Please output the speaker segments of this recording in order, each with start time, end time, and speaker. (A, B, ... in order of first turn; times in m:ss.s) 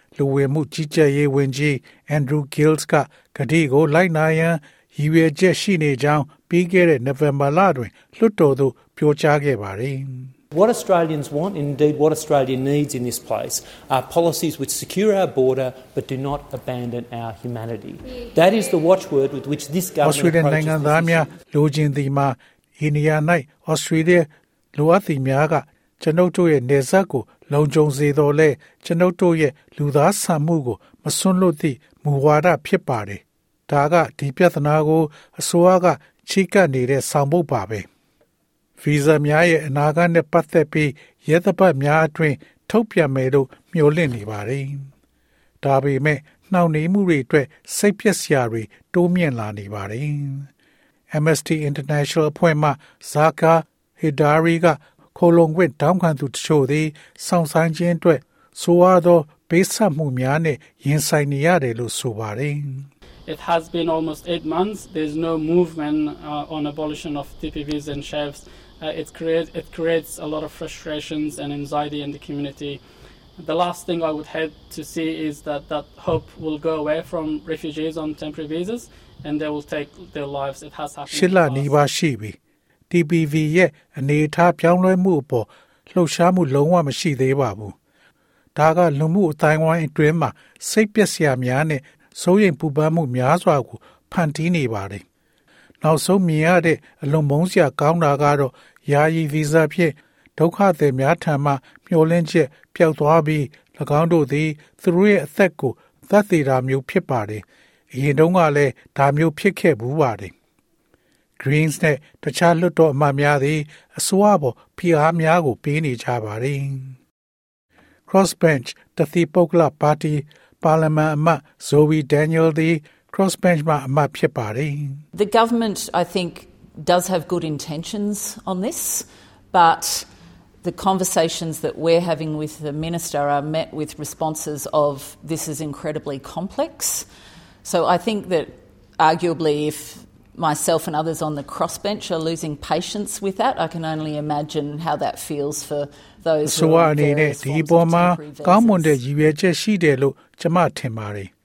0:00.2-0:10.3 A
0:10.5-0:21.3 B
0:20.0-0:37.8 A
0:38.8-0:44.9 A
0:45.6-0:50.5 A
0:51.1-1:02.9 A
1:03.2-1:12.8 C
1:13.4-1:21.8 C
1:21.1-1:22.4 A
1:22.9-1:27.8 A
1:28.6-1:35.0 A
1:35.8-1:50.3 A
1:51.4-1:57.0 A
1:58.1-2:05.0 A
2:05.1-2:10.1 D
2:10.6-2:17.0 D
2:17.6-2:29.0 D
2:26.4-2:31.3 A